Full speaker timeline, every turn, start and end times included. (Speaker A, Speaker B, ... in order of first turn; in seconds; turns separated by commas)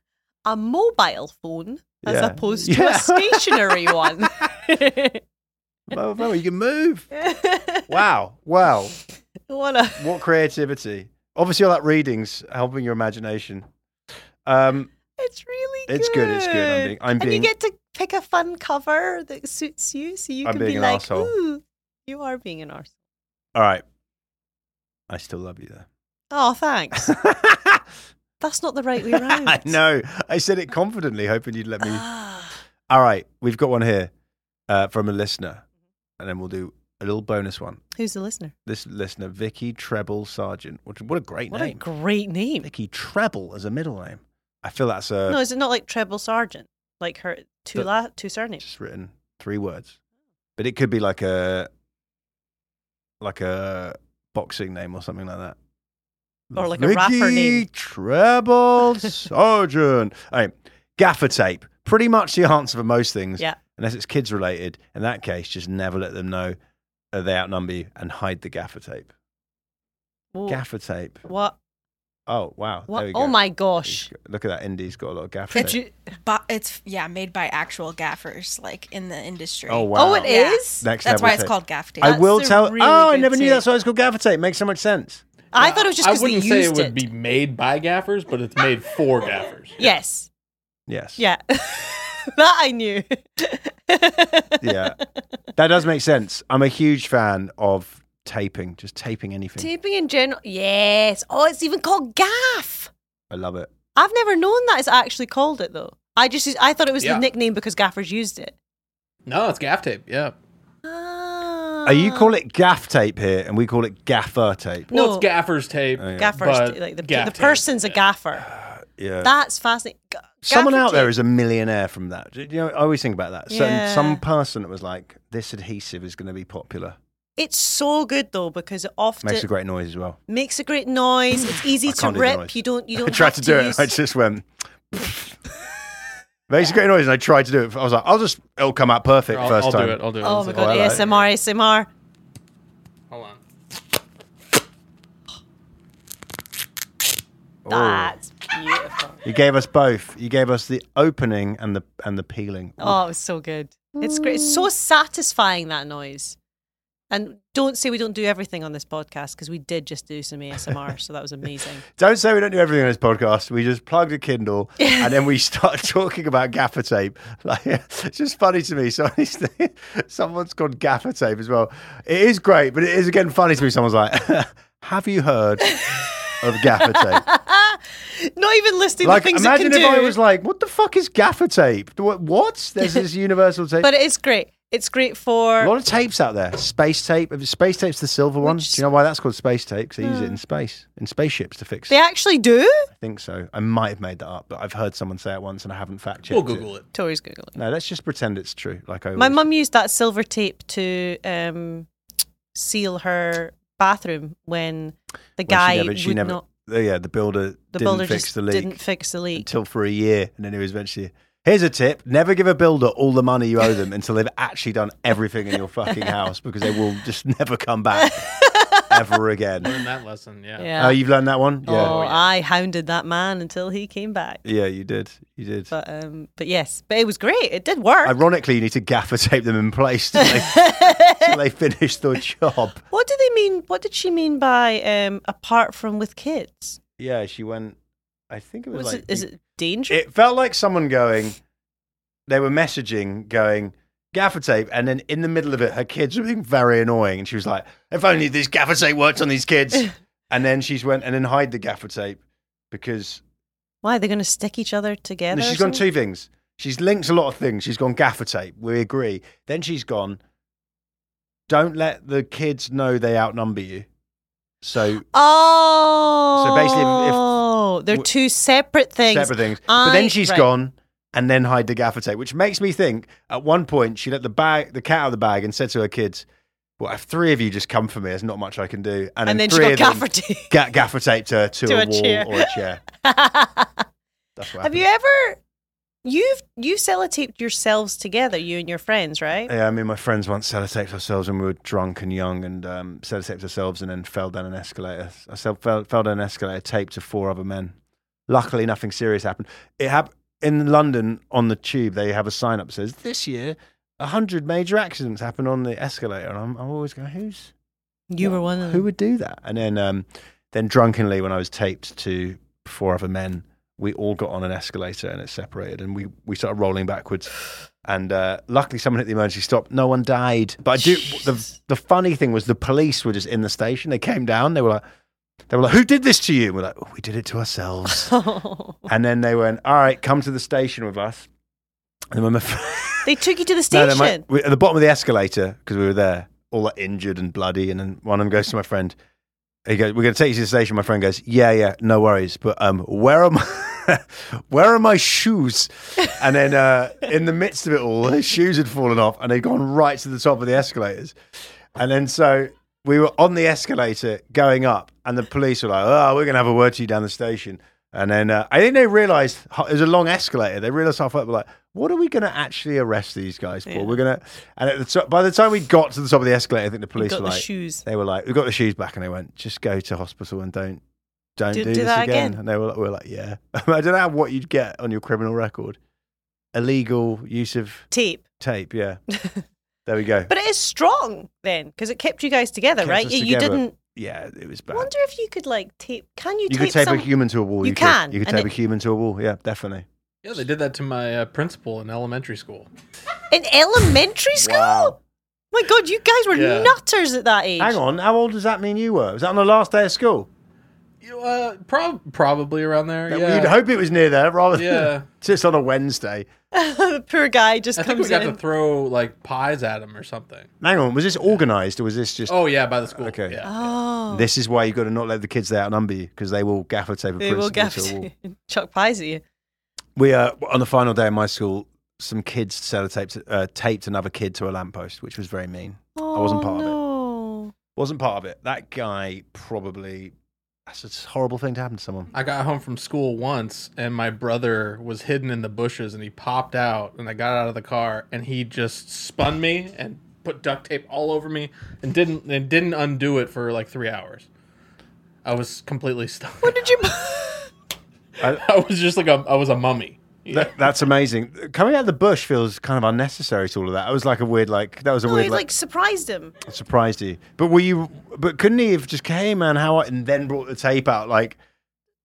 Speaker A: 0.5-5.2, Speaker B: 2.0-4.2, Speaker B: 5.9-7.1, Speaker A: 7.1-8.0, Speaker B: 7.9-9.0, Speaker A: 9.5-10.1, Speaker B: 10.0-13.7, Speaker B: 14.5-14.9, Speaker A: 15.2-22.9, Speaker B: 15.9-17.5, Speaker B: 20.4-21.3, Speaker B: 23.5-23.8, Speaker B: 25.1-25.9, Speaker A: 26.3-27.1, Speaker B: 27.0-27.8, Speaker A: 28.4-29.8, Speaker B: 29.1-32.0, Speaker A: 31.8-32.5, Speaker B: 32.9-34.1, Speaker B: 34.7-35.6, Speaker B: 36.2-37.8, Speaker A: 38.0-38.5, Speaker B: 38.6-41.9, Speaker A: 41.5-42.6, Speaker B: 42.6-45.4, Speaker A: 45.3-48.6, Speaker B: 48.6-50.0, Speaker B: 50.6-51.7, Speaker B: 53.2-55.6, Speaker B: 56.5-66.6, Speaker A: 56.6-57.6, Speaker B: 67.1-69.1, Speaker A: 70.3-70.6, Speaker B: 70.5-71.2, Speaker A: 71.2-71.6, Speaker B: 72.3-75.8, Speaker A: 72.9-74.1, Speaker A: 75.5-76.0, Speaker C: 75.5-82.2, Speaker B: 79.7-85.2, Speaker A: 79.9-80.9, Speaker A: 82.0-83.6, Speaker A: 85.5-87.1, Speaker D: 85.5-89.9, Speaker A: 89.8-90.3, Speaker B: 90.9-91.2, Speaker A: 91.2-94.8, Speaker B: 94.6-95.0, Speaker B: 95.6-99.7, Speaker A: 99.6-102.9, Speaker B: 103.3-103.7, Speaker A: 104.0-108.6, Speaker D: 107.0-107.2, Speaker D: 109.2-110.3, Speaker A: 110.8-112.4, Speaker B: 111.9-114.9, Speaker D: 114.9-118.0, Speaker A: 114.9-115.3, Speaker B: 116.0-116.4, Speaker A: 116.1-118.5, Speaker B: 118.4-119.3, Speaker A: 119.2-121.1, Speaker B: 120.5-127.0, Speaker A: 123.5-124.2, Speaker A: 127.4-129.5, Speaker B: 129.2-130.2, Speaker A: 130.3-134.0, Speaker B: 131.9-135.4, Speaker B: 136.5-141.0, Speaker D: 139.3-141.3, Speaker A: 140.2-141.9, Speaker D: 143.1-143.4, Speaker B: 147.6-148.1, Speaker A: 147.7-149.2, Speaker B: 149.2-153.0, Speaker A: 152.8-156.4, Speaker B: 153.9-154.7, Speaker A: 157.1-161.8, Speaker B: 161.9-175.8, Speaker A: 164.8-165.1, Speaker A: 175.6-180.2, Speaker B: 176.4-177.2, Speaker B: 179.0-183.9, Speaker A: 183.8-185.7, Speaker B: 185.6-192.0, Speaker A: 188.4-188.8, Speaker A: 190.0-190.4, Speaker A: 191.9-192.9, Speaker B: 192.9-196.7, Speaker D: 196.3-196.9, Speaker A: 196.9-197.5, Speaker B: 197.5-199.4, Speaker A: 199.2-201.9, Speaker A: 202.5-206.4, Speaker B: 205.5-208.8, Speaker A: 207.8-209.5, Speaker B: 209.3-218.3, Speaker A: 218.0-219.0, Speaker B: 218.9-219.7, Speaker D: 219.6-220.8, Speaker A: 220.6-221.0, Speaker B: 220.8-222.0, Speaker D: 221.6-222.3, Speaker A: 221.8-224.4, Speaker B: 224.4-225.7, Speaker A: 225.7-228.2, Speaker B: 228.0-232.8, Speaker A: 230.2-231.4, Speaker A: 232.9-236.8, Speaker B: 237.0-237.8, Speaker B: 238.3-239.3, Speaker A: 238.7-240.0, Speaker B: 239.9-241.4, Speaker B: 242.3-252.2, Speaker B: 252.7-253.2, Speaker A: 253.8-255.8, Speaker B: 255.3-260.2, Speaker B: 261.5-263.9, Speaker B: 264.6-265.1, Speaker A: 265.1-270.5, Speaker B: 266.4-267.3, Speaker B: 269.1-276.2, Speaker B: 276.8-282.8, Speaker A: 279.2-280.5, Speaker A: 281.6-283.9, Speaker B: 284.4-284.8, Speaker A: 284.6-285.4, Speaker A: 286.0-289.5, Speaker B: 289.5-297.7, Speaker B: 298.3-307.5, Speaker A: 308.1-308.9, Speaker B: 308.2-317.3, Speaker B: 317.9-324.8, Speaker A: 320.8-321.4, Speaker B: 325.5-328.1, Speaker A: 327.9-328.8, Speaker B: 328.9-331.3, Speaker B: 332.1-339.0, Speaker A: 333.1-334.2, Speaker B: 339.6-351.1, Speaker B: 351.8-370.8, Speaker A: 363.7-364.0, Speaker A: 367.0-367.8, Speaker B: 371.4-375.8, Speaker A: 371.5-372.4, Speaker B: 376.5-379.0, Speaker A: 377.9-378.2, Speaker A: 379.1-379.4, Speaker B: 379.9-380.3, Speaker A: 380.3-383.8, Speaker B: 382.8-384.9, Speaker A: 384.7-387.1, Speaker B: 386.5-389.9, Speaker A: 387.6-388.5, Speaker D: 390.2-392.7, Speaker A: 393.3-395.0, Speaker B: 394.4-395.0, Speaker A: 395.5-397.8, Speaker D: 396.3-396.8, Speaker B: 397.6-400.3, Speaker D: 401.0-403.6, Speaker B: 403.1-406.3, Speaker D: 404.5-405.1, Speaker A: 406.5-408.4, Speaker D: 407.8-410.5, Speaker B: 410.6-413.4, Speaker D: 412.3-413.7, Speaker A: 413.4-414.3, Speaker B: 414.1-418.1, Speaker A: 417.2-419.2, Speaker B: 419.9-426.8, Speaker A: 425.9-427.5, Speaker B: 427.8-430.1, Speaker B: 430.7-432.1, Speaker D: 432.1-444.3, Speaker D: 445.2-446.8, Speaker A: 446.4-447.5, Speaker D: 448.2-450.6, Speaker B: 450.3-455.5, Speaker A: 455.0-456.4, Speaker B: 456.4-461.4